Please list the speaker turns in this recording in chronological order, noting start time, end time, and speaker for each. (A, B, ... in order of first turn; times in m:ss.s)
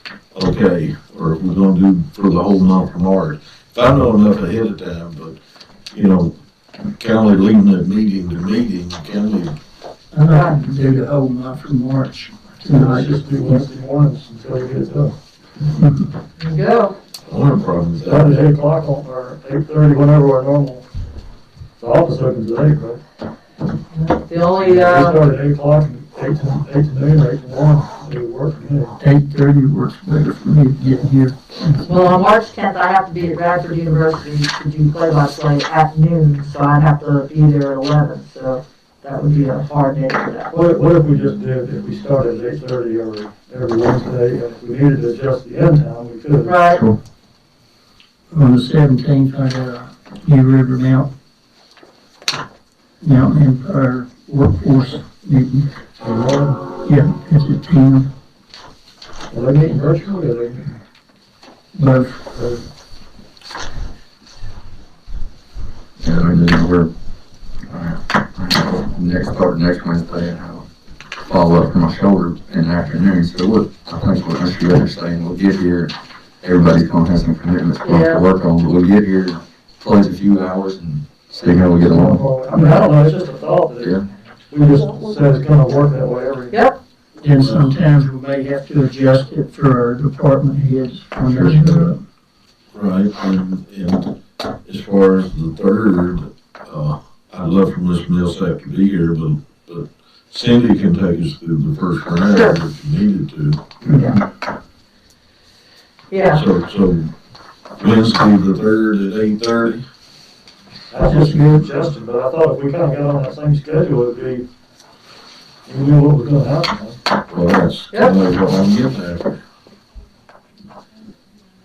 0:00.3-0:05.4 A
0:05.9-0:06.4 A
0:07.0-0:09.6 A
0:10.1-0:13.6 B
0:10.2-0:10.6 C
0:12.7-0:15.2 D
0:15.8-0:16.1 B
0:16.4-0:17.0 C
0:17.3-0:18.4 A
0:18.0-0:20.9 D
0:21.8-0:23.0 D
0:23.9-0:25.2 C
0:24.6-0:29.0 D
0:29.0-0:31.8 B
0:31.8-0:40.5 C
0:40.5-0:46.6 D
0:46.4-0:46.8 C
0:46.7-0:47.0 E
0:48.3-0:51.1 B
0:53.0-0:55.7 B
0:56.0-0:56.7 D
0:56.7-0:58.1 B
0:59.3-1:00.7 D
1:01.8-1:02.3 B
1:02.3-1:02.6 D
1:06.0-1:06.9 E
1:07.7-1:10.7 E
1:11.2-1:22.2 E
1:17.8-1:18.2 C
1:21.8-1:24.0 D
1:22.5-1:22.9 B
1:23.8-1:24.1 E
1:24.5-1:26.6 D
1:26.5-1:26.8 C
1:27.2-1:32.0 B
1:27.4-1:27.7 A
1:31.4-1:31.9 C
1:32.7-1:43.7 A
1:42.2-1:42.6 C
1:43.8-1:44.2 E
1:43.9-1:44.2 C
1:46.1-1:46.4 C
1:46.2-1:47.1 A
1:47.8-1:49.8 A
1:50.9-1:54.5 D
1:51.0-1:51.7 B
1:55.7-1:57.0 D
1:57.3-1:59.4 A